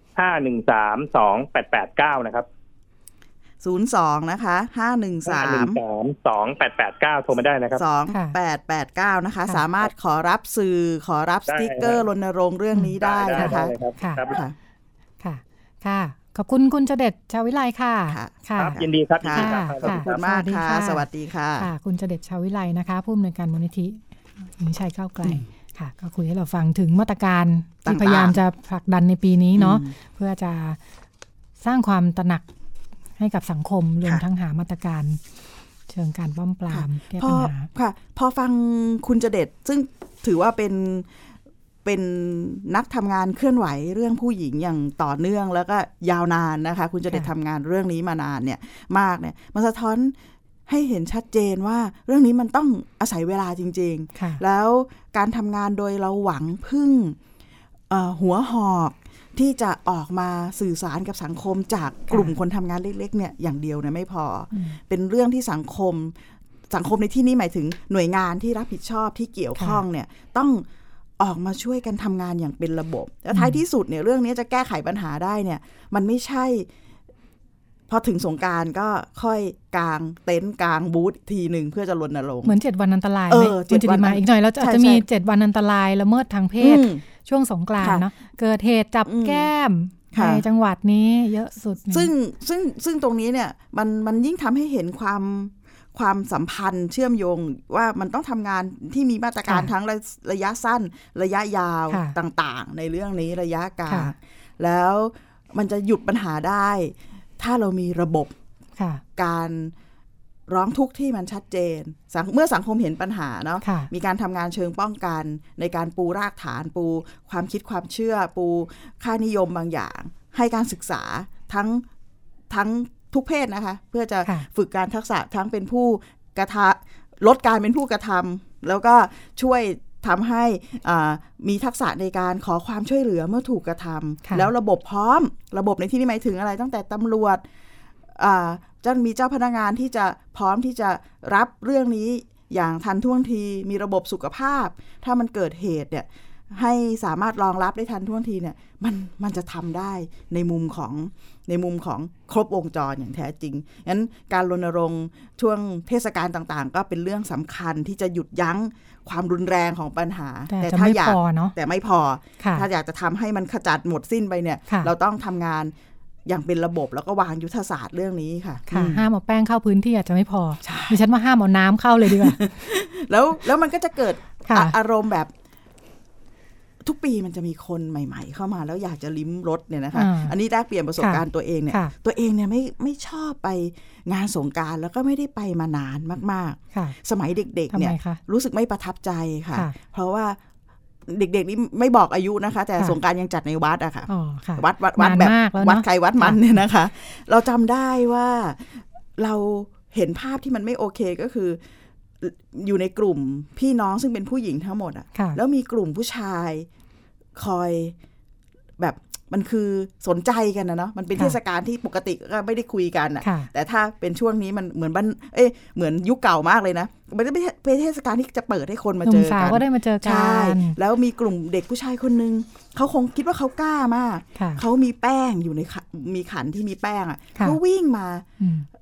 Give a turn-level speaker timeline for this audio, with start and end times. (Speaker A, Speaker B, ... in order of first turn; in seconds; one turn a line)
Speaker A: 0.2-2.5
Speaker B: 3.6-5.8
Speaker A: 5.3-7.8
Speaker B: 7.8-13.8
Speaker C: 8.1-8.4
Speaker A: 11.5-12.0
Speaker C: 12.7-14.2
Speaker A: 13.0-14.4
Speaker B: 14.3-14.6
Speaker C: 15.2-18.8
Speaker B: 18.1-21.7
Speaker A: 18.6-20.2
Speaker C: 19.3-21.1
Speaker C: 21.6-30.8
Speaker B: 27.9-28.4
Speaker B: 29.6-30.0
Speaker C: 31.6-32.5
Speaker C: 33.2-35.2
Speaker C: 35.9-37.7
Speaker B: 36.7-41.1
Speaker B: 41.9-50.1
Speaker B: 50.7-57.2
Speaker C: 54.2-54.4
Speaker B: 57.9-66.2
Speaker C: 64.5-64.8
Speaker B: 66.7-70.7
Speaker B: 71.2-76.7
Speaker C: 73.3-73.6
Speaker B: 77.9-82.5
Speaker C: 82.4-92.1
Speaker B: 83.3-85.0
Speaker B: 86.6-87.0
Speaker B: 87.8-88.1
Speaker B: 89.1-89.5
Speaker B: 90.1-90.4
Speaker B: 91.9-108.3
Speaker C: 101.9-102.2
Speaker C: 103.9-104.1
Speaker C: 108.8-109.0
Speaker B: 109.2-109.7
Speaker B: 110.5-121.8
Speaker C: 113.6-113.9
Speaker B: 122.5-137.4
Speaker B: 138.2-165.7
Speaker C: 160.5-161.5
Speaker C: 162.4-162.7
Speaker B: 166.3-169.0
Speaker C: 168.7-172.4
Speaker B: 170.6-171.0
Speaker B: 172.0-175.3
Speaker C: 174.4-174.8
Speaker B: 176.8-190.4
Speaker C: 179.9-180.3
Speaker C: 181.0-181.9
Speaker C: 187.7-188.2
Speaker B: 191.1-201.6
Speaker C: 194.1-196.6
Speaker B: 202.2-206.7
Speaker B: 207.4-207.9
Speaker B: 208.8-228.3
Speaker C: 213.2-213.5
Speaker C: 219.1-220.8
Speaker C: 224.4-224.6
Speaker C: 228.4-228.7